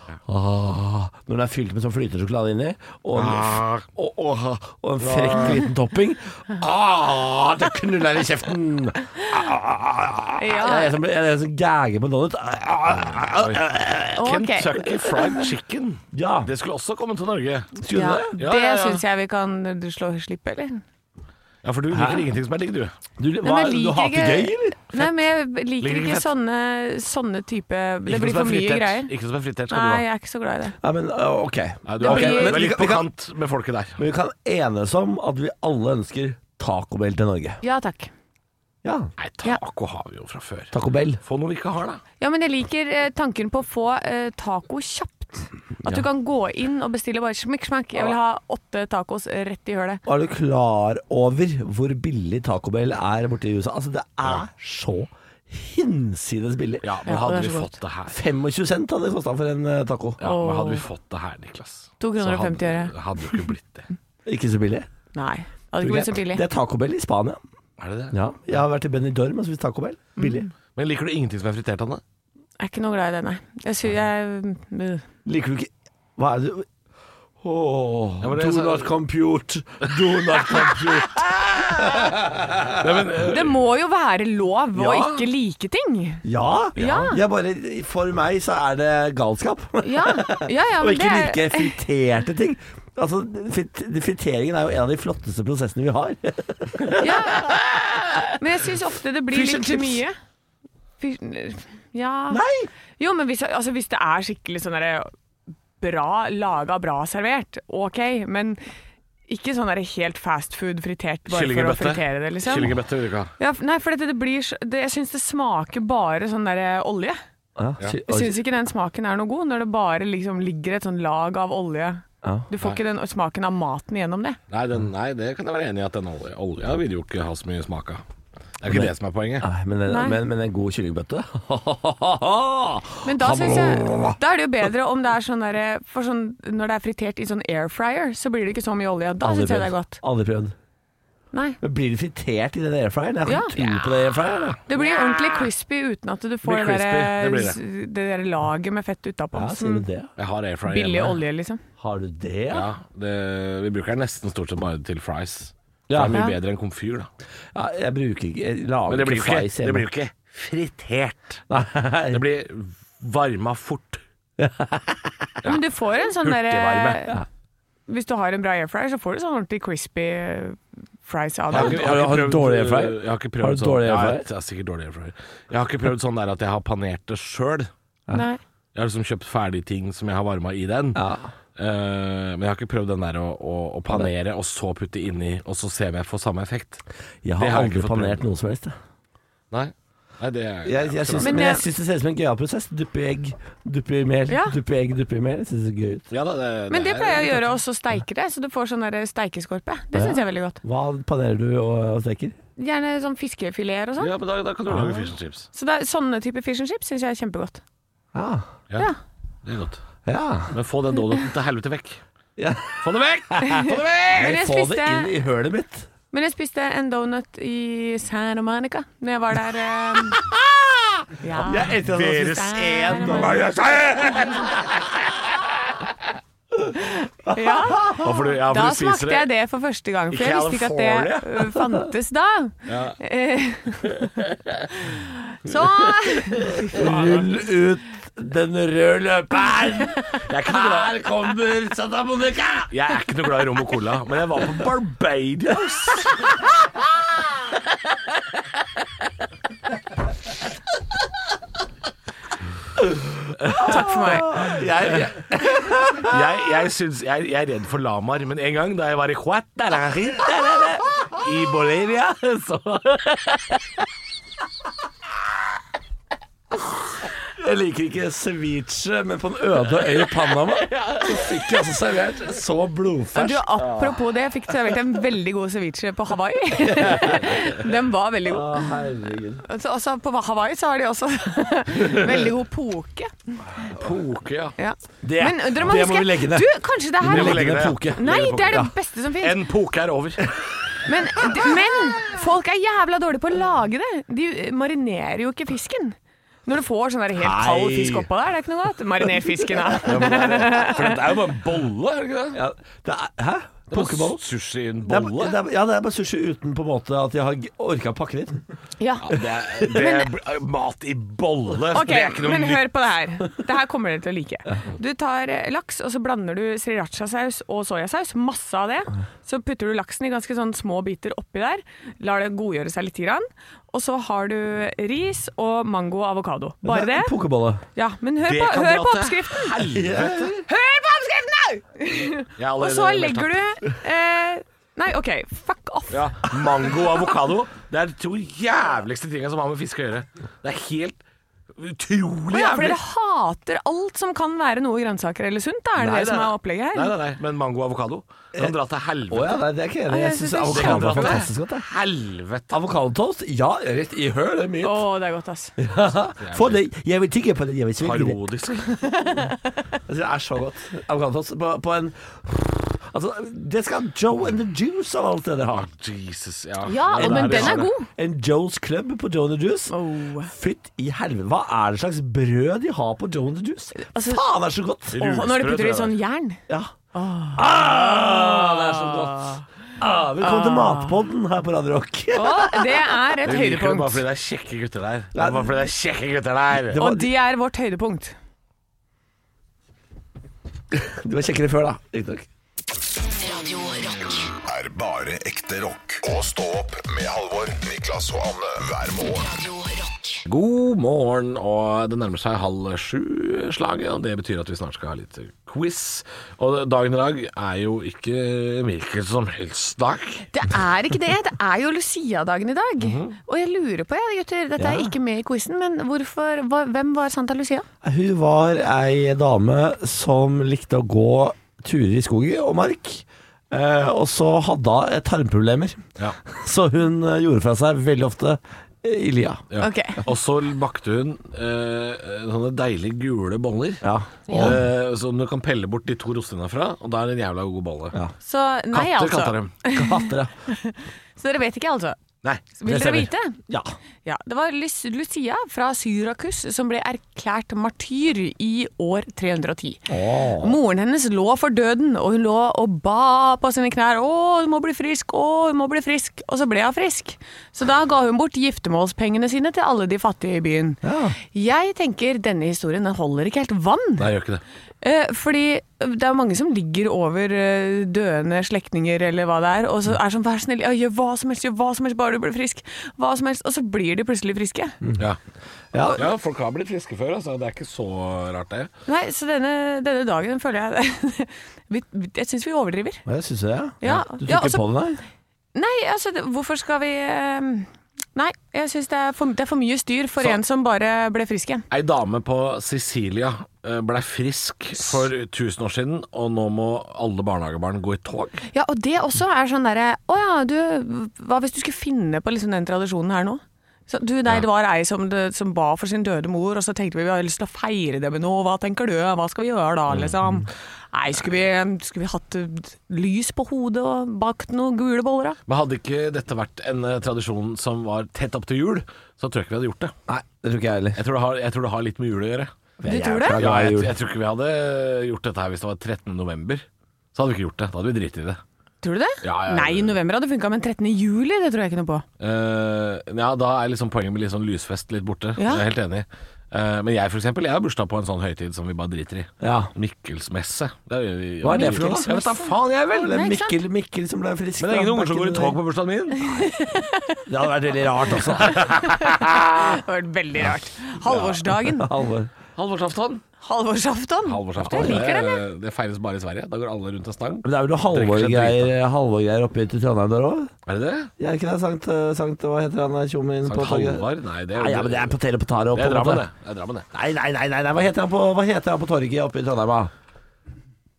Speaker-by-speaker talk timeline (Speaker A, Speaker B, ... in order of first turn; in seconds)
Speaker A: 0.2-14.3, 16.1-16.5, 17.7-18.3, 21.9-22.3, 23.2-25.0, 30.8-33.1, 34.0-37.6, 38.8-39.1, 40.7-41.2, 50.0-56.9, 58.1-60.2, 64.2-64.9, 65.8-67.4, 68.1-70.4, 75.2-76.7, 77.4-83.0, 86.2-98.4, 99.3-100.0, 102.3-102.7, 117.6-118.4, 128.7-134.2, 139.2-140.5, 141.6-144.6, 149.3-150.1, 151.8-152.7, 155.9-156.2, 157.5-159.8, 161.5-162.2, 164.4-165.3, 171.5-174.3, 180.9-181.3, 187.2-188.7, 190.6-196.1, 199.9-202.4, 204.7-205.1, 208.1-208.5, 210.0-210.6, 212.4-215.9, 220.1-224.8, 227.2-228.1, 236.4-242.7, 252.8-256.2, 259.9-263.6, 267.4-274.0, 276.7-277.1, 278.2-279.4, 285.0-288.7, 297.1-298.1, 299.4-300.1, 302.3-304.2, 304.8-308.4, 309.1-309.8, 326.6-327.6, 329.7-330.4, 349.1-351.7, 352.5-354.8, 355.6-358.2, 359.9-365.7, 366.9-369.7, 370.2-375.0, 377.3-383.0, 385.1-385.5, 386.7-387.1, 390.7-392.2, 414.6-414.9, 417.8-429.4, 433.8-434.6, 439.7-440.3, 442.7-443.7, 449.9-450.6, 460.8-461.1, 475.7-476.0, 483.1-485.0, 520.1-521.0, 522.8-523.9, 539.4-539.7, 541.4-542.1, 542.9-545.6, 547.3-548.6, 551.7-552.3, 554.7-555.0, 557.4-560.5, 561.2-566.2, 566.9-569.9
Speaker B: 3.1-3.9, 5.0-5.6, 13.1-17.8, 18.4-19.0, 21.6-22.9, 25.8-26.3, 28.1-30.0, 31.9-34.0, 39.2-42.0, 56.8-58.2, 60.2-63.9, 67.8-68.2, 70.7-72.0, 78.2-78.9, 81.8-82.1, 82.7-83.6, 84.8-85.2, 86.8-87.1, 111.3-113.3, 124.5-128.0, 128.6-129.5, 146.4-147.6, 150.2-151.2, 152.5-157.1, 158.9-161.4, 162.1-164.0, 166.2-167.1, 171.5-177.7, 178.7-181.0, 181.6-186.8, 187.4-188.2, 189.5-191.5, 196.1-197.4, 204.0-205.5, 209.4-209.8, 210.5-212.0, 212.8-214.3, 221.7-224.5, 227.9-229.3, 230.1-231.5, 232.7-233.0, 236.7-237.2, 240.2-240.9, 242.7-246.3, 256.0-260.2, 261.2-261.8, 270.7-271.1, 283.7-284.6, 287.0-290.3, 299.8-302.4, 303.7-305.4, 309.0-312.7, 328.2-330.3, 332.4-333.3, 335.9-341.0, 341.6-342.8, 345.8-349.4, 350.5-352.6, 356.2-356.6, 357.8-358.8, 365.5-367.7, 374.9-376.0, 383.2-386.8, 400.3-410.3, 412.8-413.1, 429.5-438.0, 438.7-439.5, 464.0-464.4, 475.9-478.7, 491.7-498.4, 509.9-510.1, 515.5-519.9, 521.0-522.5, 523.4-528.4, 529.2-530.0, 532.2-543.1, 544.6-546.3, 548.4-549.4, 551.0-551.5, 552.5-553.2, 554.2-558.7, 560.7-561.1, 563.5-565.1, 565.7-566.9
Speaker C: 10.4-10.9, 14.2-14.8, 17.9-20.8, 23.4-29.1, 29.7-30.8, 32.0-32.6, 37.6-38.1, 42.2-50.0, 57.0-57.7, 60.2-60.8, 62.0-63.4, 65.1-66.4, 70.2-70.5, 72.6-75.0, 83.2-86.2, 86.8-87.2, 89.8-91.8, 97.0-97.6, 98.4-100.2, 101.0-102.4, 103.0-105.1, 105.8-108.6, 109.3-112.7, 113.4-117.2, 118.1-124.4, 129.9-130.2, 133.0-140.0, 141.3-141.6, 143.2-143.6, 144.7-149.8, 150.7-151.6, 156.1-156.3, 165.4-167.2, 167.9-171.8, 178.1-178.4, 191.2-191.6, 194.3-194.6, 196.7-200.6, 202.6-204.1, 205.5-207.6, 213.4-215.1, 216.1-220.2, 221.2-223.4, 226.8-234.1, 234.7-237.0, 253.5-254.5, 273.1-278.7, 279.4-283.4, 284.6-289.4, 290.8-300.9, 308.8-309.1, 311.7-327.1, 327.7-329.6, 330.4-336.7, 342.3-346.9, 349.9-351.2, 354.6-355.5, 358.8-359.4, 366.6-367.9, 369.7-370.3, 373.7-374.2, 374.9-376.4, 376.9-379.5, 380.2-381.0, 382.1-384.0, 386.7-388.1, 410.3-417.6, 429.6-430.0, 434.3-434.6, 438.2-442.0, 442.5-443.4, 444.0-464.1, 464.8-474.8, 478.9-483.0, 483.8-484.6, 485.5-491.6, 498.5-515.4, 522.9-523.4, 528.8-532.0, 535.4-535.6, 541.5-543.6, 546.2-547.2, 548.8-551.9, 553.4-555.4
Speaker D: 393.1-394.3, 399.2-400.2
Speaker E: 394.4-399.3